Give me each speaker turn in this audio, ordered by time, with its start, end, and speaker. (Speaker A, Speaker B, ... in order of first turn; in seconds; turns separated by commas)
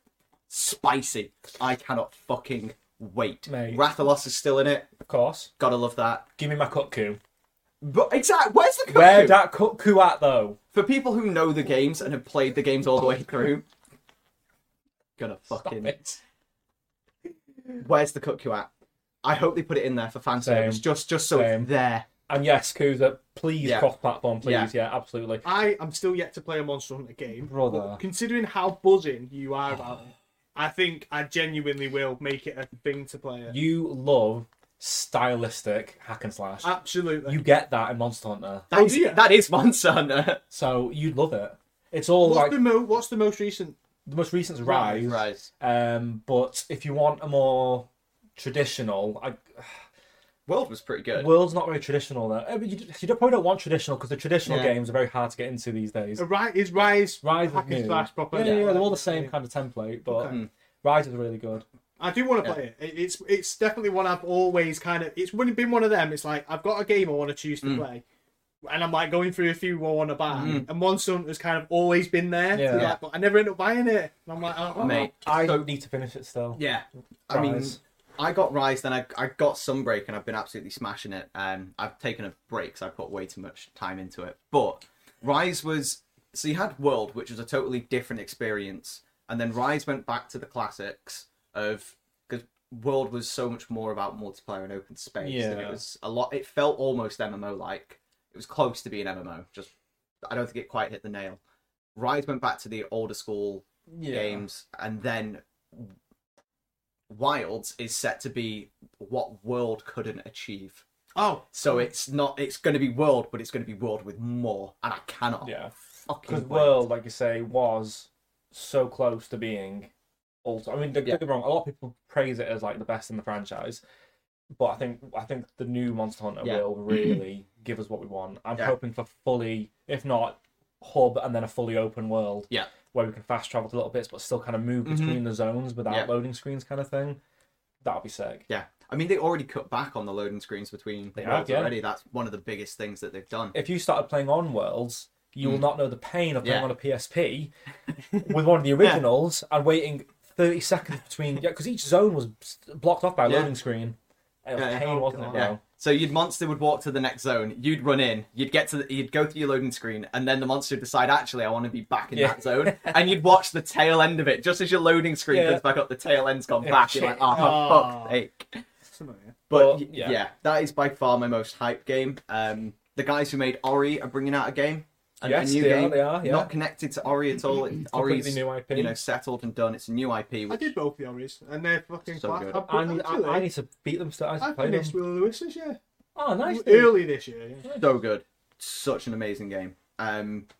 Speaker A: 0.5-4.9, Speaker B: 3.5-3.9, Speaker B: 5.1-5.5, Speaker A: 5.6-6.2, Speaker B: 6.4-7.2, Speaker A: 7.8-9.4, Speaker B: 8.9-10.6, Speaker A: 10.7-13.7, Speaker A: 15.2-16.0, Speaker B: 15.6-16.2, Speaker A: 17.8-18.7, Speaker A: 19.2-22.1, Speaker B: 20.4-21.7, Speaker B: 22.3-25.4, Speaker A: 23.6-23.9, Speaker A: 24.4-24.7, Speaker C: 25.4-33.6, Speaker B: 27.5-28.0, Speaker B: 33.5-36.7, Speaker C: 36.6-37.4, Speaker B: 37.3-38.7, Speaker C: 38.7-39.2, Speaker A: 38.7-40.4, Speaker B: 40.5-42.6, Speaker C: 42.2-43.8, Speaker B: 44.0-49.8, Speaker C: 44.6-45.2, Speaker A: 45.0-45.5, Speaker A: 50.5-51.3, Speaker B: 51.1-56.2, Speaker A: 54.5-54.7, Speaker C: 56.2-59.3, Speaker B: 57.2-61.6, Speaker A: 58.4-58.6, Speaker C: 62.0-68.0, Speaker C: 68.7-75.1, Speaker B: 70.3-70.6, Speaker A: 70.4-70.7, Speaker B: 72.5-72.9, Speaker A: 72.7-73.0, Speaker A: 74.8-75.7, Speaker B: 75.2-76.6, Speaker A: 76.5-99.7, Speaker B: 77.3-77.8, Speaker B: 95.2-95.8, Speaker A: 100.2-101.4, Speaker A: 102.0-105.9, Speaker B: 103.9-104.4, Speaker A: 107.1-110.8, Speaker C: 111.1-111.8, Speaker A: 111.5-115.5, Speaker B: 115.4-115.7, Speaker A: 116.1-116.8, Speaker B: 116.2-119.9, Speaker B: 120.4-123.8, Speaker B: 124.6-137.2, Speaker A: 126.4-127.1, Speaker A: 134.8-135.2, Speaker B: 137.8-138.4, Speaker A: 138.5-143.5, Speaker B: 141.1-141.7, Speaker B: 143.5-147.5, Speaker A: 146.4-146.7, Speaker B: 148.2-155.6, Speaker A: 153.2-153.5, Speaker A: 154.6-168.6, Speaker C: 154.8-155.5, Speaker B: 162.1-163.0, Speaker B: 165.3-165.6, Speaker B: 166.6-167.8, Speaker C: 167.3-168.2, Speaker C: 168.9-169.4, Speaker A: 169.5-180.7, Speaker B: 169.5-170.2, Speaker B: 175.2-176.5, Speaker B: 177.9-179.0, Speaker C: 180.5-183.5, Speaker A: 182.1-182.6, Speaker B: 182.6-184.9, Speaker C: 184.4-185.8, Speaker B: 186.2-186.9, Speaker C: 186.4-187.7, Speaker A: 187.7-190.5